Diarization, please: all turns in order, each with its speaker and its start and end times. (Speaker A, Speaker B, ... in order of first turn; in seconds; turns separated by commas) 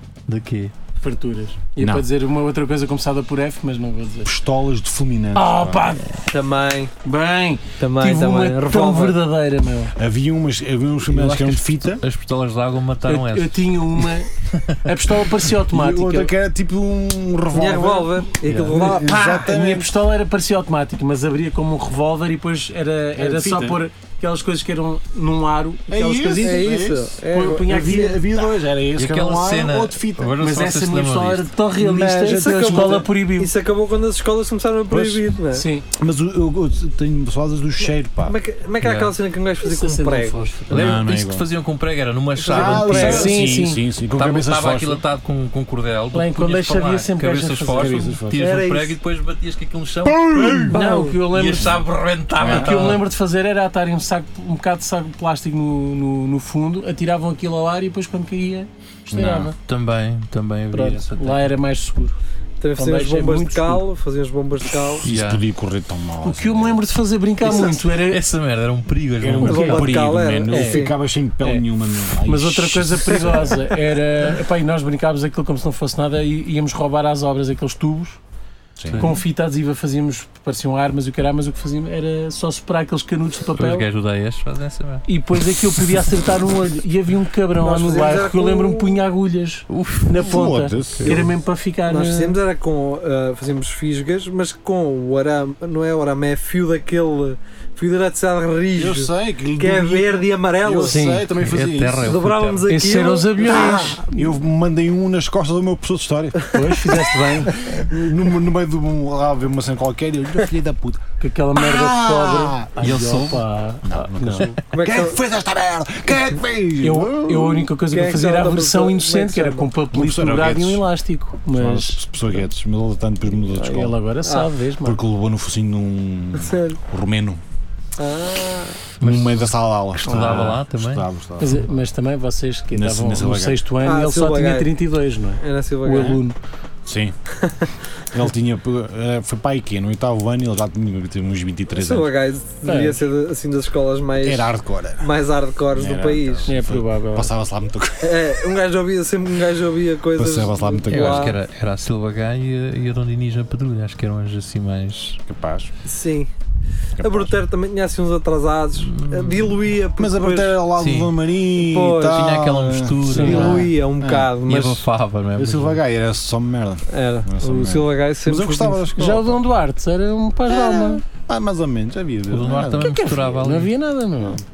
Speaker A: 0.3-0.7, Speaker B: 1.0-4.3, Speaker C: 1.8-2.1, Speaker C: 4.2-6.0, Speaker B: 5.3-6.3, Speaker D: 6.3-6.9, Speaker B: 7.0-9.9, Speaker D: 7.8-9.2, Speaker C: 9.9-12.0, Speaker A: 11.1-13.8, Speaker B: 13.1-16.3, Speaker A: 14.4-14.8, Speaker C: 15.7-19.9, Speaker D: 17.5-19.2, Speaker A: 18.4-18.8, Speaker B: 18.9-28.2, Speaker C: 23.2-23.8, Speaker C: 25.9-30.4, Speaker D: 26.4-28.2, Speaker A: 29.0-31.5, Speaker B: 30.4-33.5, Speaker C: 31.8-33.1, Speaker D: 32.2-35.7, Speaker C: 34.9-35.3, Speaker B: 35.5-35.9, Speaker C: 35.9-38.4, Speaker D: 38.2-40.4, Speaker A: 38.8-39.1, Speaker B: 39.6-40.9, Speaker A: 40.7-43.5, Speaker C: 40.7-41.5, Speaker D: 42.4-43.4, Speaker C: 42.5-45.0, Speaker B: 42.9-43.8, Speaker A: 44.1-53.0, Speaker B: 46.1-48.2, Speaker C: 47.7-48.4, Speaker D: 48.4-49.0, Speaker C: 50.0-50.8, Speaker B: 50.7-51.9, Speaker D: 50.7-51.2, Speaker B: 52.4-59.6, Speaker C: 52.4-52.9, Speaker C: 59.1-59.5, Speaker A: 59.6-61.5, Speaker B: 60.7-62.2, Speaker D: 62.6-65.1, Speaker B: 62.8-63.9, Speaker A: 65.0-65.4, Speaker C: 65.0-66.8, Speaker B: 66.2-68.2, Speaker C: 67.4-67.8, Speaker A: 67.5-69.9, Speaker C: 69.2-73.6, Speaker B: 69.4-69.9, Speaker D: 69.5-70.9, Speaker B: 70.5-70.8, Speaker B: 72.2-78.2, Speaker C: 78.8-79.1, Speaker A: 78.8-79.2, Speaker B: 79.0-83.9, Speaker A: 83.5-85.0, Speaker B: 85.1-92.4, Speaker D: 87.6-89.0, Speaker A: 89.7-90.4, Speaker C: 90.2-91.3, Speaker A: 91.0-91.2, Speaker D: 91.9-101.0, Speaker C: 98.8-102.2, Speaker B: 100.8-101.3, Speaker A: 101.4-102.7, Speaker D: 102.0-104.0, Speaker B: 102.7-104.3, Speaker C: 103.4-112.7, Speaker B: 106.5-107.6, Speaker B: 111.2-114.5, Speaker A: 112.8-113.5, Speaker C: 113.8-117.7, Speaker D: 114.7-115.2, Speaker B: 116.8-122.0, Speaker D: 117.8-119.7, Speaker C: 119.9-120.8, Speaker C: 121.5-124.0, Speaker B: 123.4-125.0, Speaker D: 124.2-124.5, Speaker C: 124.8-127.4, Speaker D: 126.3-126.8, Speaker D: 128.0-128.9, Speaker A: 129.0-131.1, Speaker C: 129.0-131.8, Speaker B: 130.1-130.6, Speaker B: 131.4-136.4, Speaker C: 132.7-133.6, Speaker D: 133.8-134.7, Speaker D: 135.4-136.2, Speaker C: 136.9-137.2, Speaker D: 137.4-137.7, Speaker C: 138.1-142.1, Speaker D: 141.7-146.5, Speaker B: 142.7-143.0, Speaker C: 144.2-145.1, Speaker C: 145.7-148.6, Speaker B: 146.5-147.3, Speaker D: 148.0-151.4, Speaker C: 150.2-151.4, Speaker A: 150.9-155.2, Speaker C: 155.3-155.7, Speaker D: 155.8-156.3, Speaker C: 157.0-157.3, Speaker D: 157.0-160.6, Speaker A: 158.8-159.6, Speaker C: 160.0-164.4, Speaker A: 160.8-161.1, Speaker D: 161.6-162.2, Speaker A: 162.0-163.7, Speaker B: 163.1-163.6, Speaker D: 163.2-164.8, Speaker A: 164.4-165.8, Speaker C: 165.4-169.4, Speaker D: 166.9-169.2, Speaker B: 169.0-171.0, Speaker C: 170.5-172.9, Speaker A: 172.3-173.7, Speaker B: 172.8-174.4